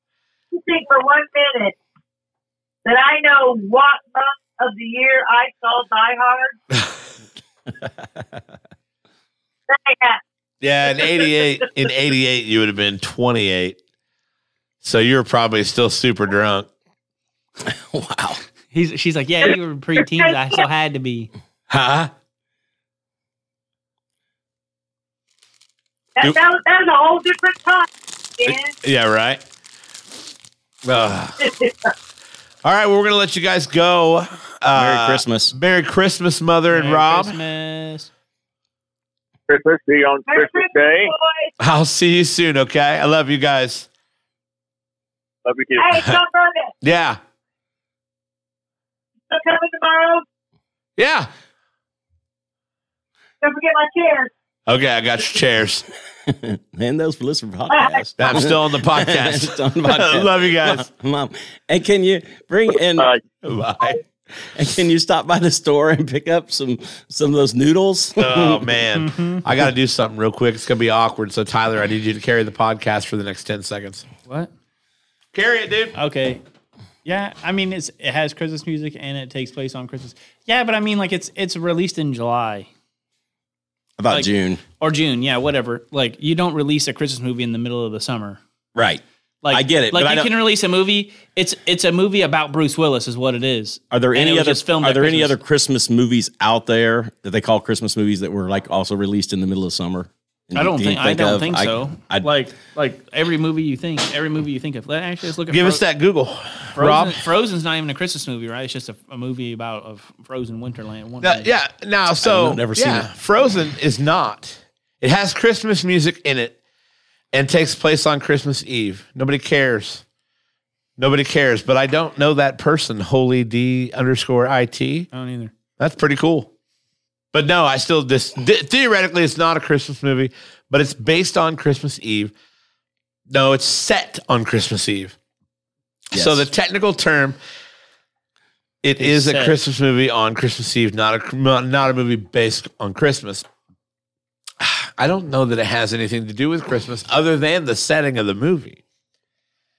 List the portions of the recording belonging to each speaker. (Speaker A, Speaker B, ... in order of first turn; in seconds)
Speaker A: 0.5-1.8, 2.8-6.6, 9.7-10.2, 20.0-20.6, 26.2-28.7, 31.4-31.9, 40.3-41.5, 45.8-46.7, 49.3-50.2, 53.4-54.3, 57.7-58.0
Speaker B: 10.6-13.8, 14.8-16.7, 21.7-22.1, 28.5-29.4, 30.8-31.4, 32.6-37.4, 41.6-43.9, 46.8-47.2, 51.0-51.3, 54.7-55.8, 58.2-60.9, 63.4-64.0, 68.2-74.0, 75.3-75.9, 105.5-107.2, 111.2-116.5, 117.3-120.0, 121.0-125.1, 125.8-126.5, 127.3-132.3, 133.3-135.1, 136.1-137.4, 138.8-143.4, 144.6-148.8
Speaker C: 17.6-18.4, 34.7-35.5, 56.2-63.1, 64.5-68.7, 84.0-84.6, 88.7-90.3, 93.9-102.3, 112.2-113.1, 136.1-136.5
Speaker D: 18.7-21.3, 36.7-38.1, 69.0-69.4, 76.0-76.4, 77.0-82.7, 84.8-88.4, 89.4-95.3, 100.5-105.8, 106.8-111.5, 125.1-125.5, 139.0-139.6
Speaker E: 39.5-41.1, 45.4-46.0